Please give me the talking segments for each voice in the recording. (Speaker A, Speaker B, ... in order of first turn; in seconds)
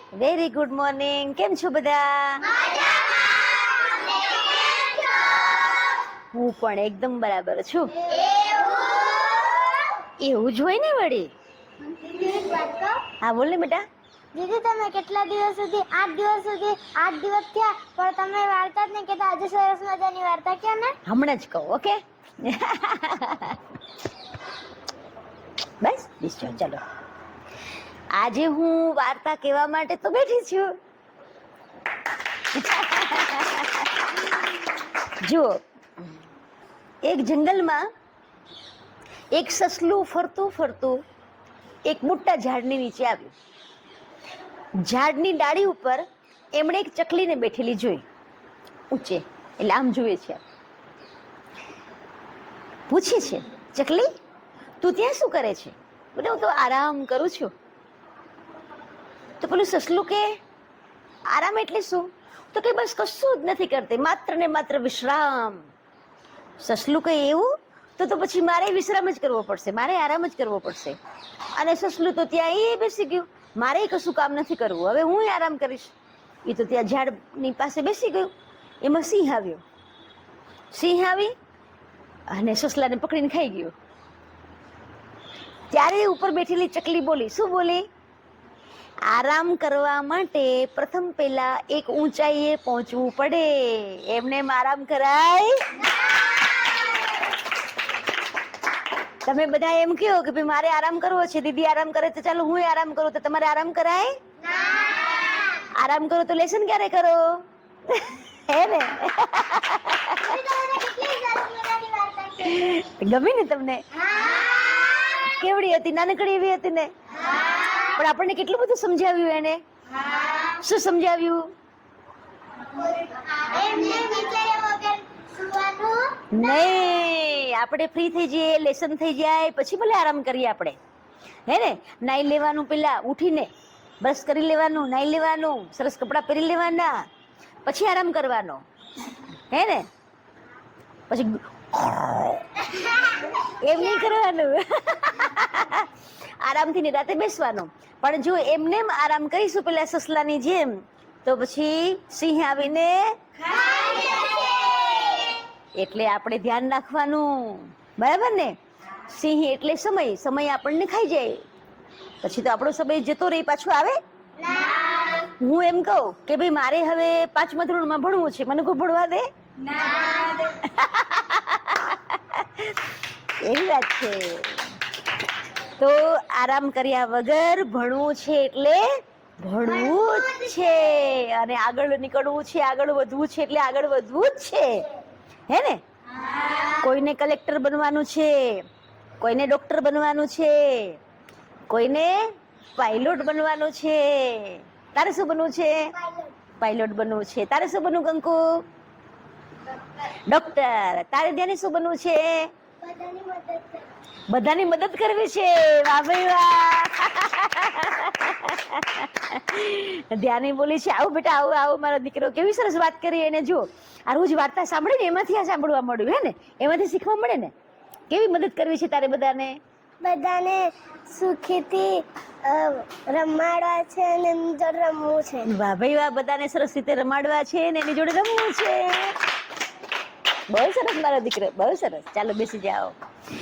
Speaker A: 0.1-2.5, 6.3-8.0, 10.2-11.3, 13.2-13.8, 21.1-23.6, 25.8-26.8, 28.1-30.7, 32.5-34.2, 35.1-35.6, 37.0-37.9, 39.3-41.0, 41.9-43.3, 44.8-48.0, 48.9-50.4, 52.9-54.1, 54.8-57.5, 59.4-60.4, 61.3-65.7, 66.6-71.0, 71.5-75.9, 76.5-79.6, 80.7-81.3, 82.3-83.8, 85.7-87.9, 89.1-95.8, 99.2-104.2, 105.7-110.3, 112.4-113.8, 115.0-116.9, 117.8-119.6, 120.5-121.5, 126.3-130.8, 131.5-133.5, 134.0-137.0, 137.7-138.6, 139.5-139.9, 141.1-145.9, 146.4-153.2, 155.8-158.6, 159.1-161.4, 162.2-164.0, 165.2-169.3, 170.4-172.8, 173.4-174.6, 175.8-178.9, 179.4-184.9, 185.5-185.8, 186.5-188.7, 189.2-191.0, 191.7-195.9, 196.6-198.4, 200.1-202.5, 204.3-217.5, 218.1-219.6, 225.4-229.2, 230.5-233.0
Speaker B: 2.5-5.9, 8.0-9.9, 11.9-13.1, 14.3-21.0, 104.4-105.7, 110.2-112.6, 114.0-115.3, 117.3-117.9, 122.6-126.9, 153.6-155.3, 164.4-165.2, 169.7-170.5, 196.0-196.3, 202.8-203.9, 220.0-225.5